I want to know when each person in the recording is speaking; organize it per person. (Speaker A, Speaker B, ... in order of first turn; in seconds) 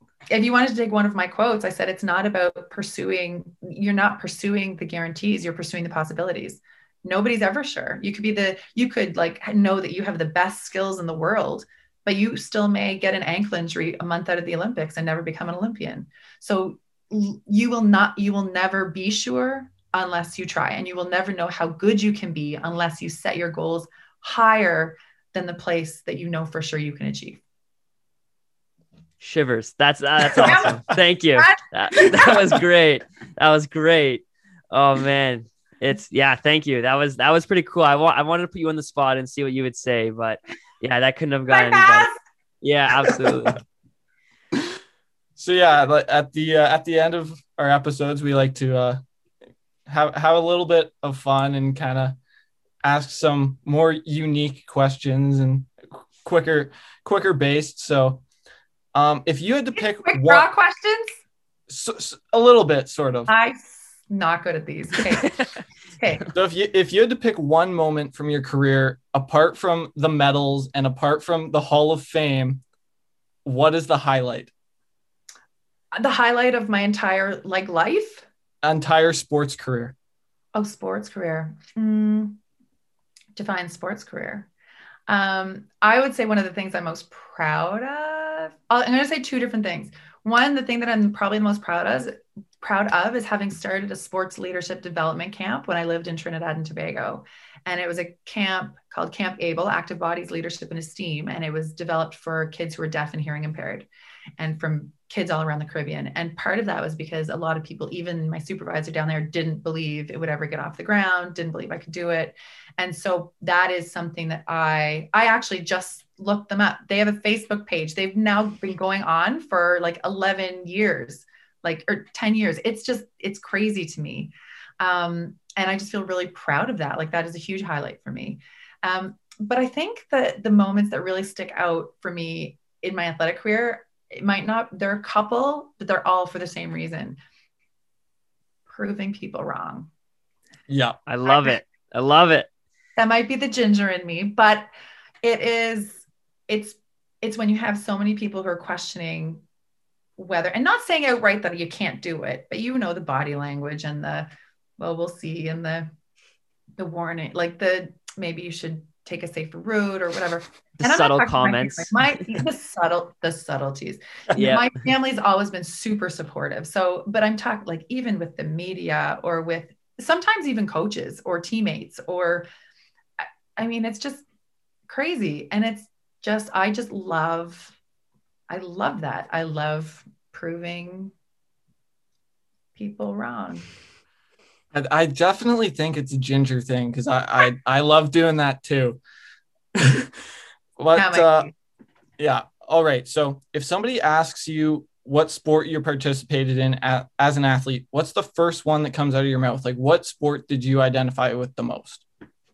Speaker A: 0.3-27.4, 30.3-32.4, 41.5-42.2, 59.8-61.1, 63.3-65.3, 65.9-66.3, 75.9-78.3, 80.5-82.4, 83.3-84.5, 85.1-137.2, 138.7-139.9, 141.2-141.6, 143.0-144.7, 145.2-149.4, 150.2-155.9, 156.8-172.4, 173.2-174.2, 174.9-177.7, 178.5-181.1, 182.8-183.7, 190.9-191.5
Speaker B: 29.2-42.1, 42.6-43.6, 141.1-142.5, 160.8-162.2, 164.3-164.7
Speaker C: 45.4-49.0, 49.9-52.2, 52.8-58.2, 58.9-60.5, 61.7-63.3, 66.3-72.6, 73.4-74.5, 78.6-79.9, 140.7-141.0, 184.7-189.0, 189.7-190.1, 190.8-191.5, 192.2-202.0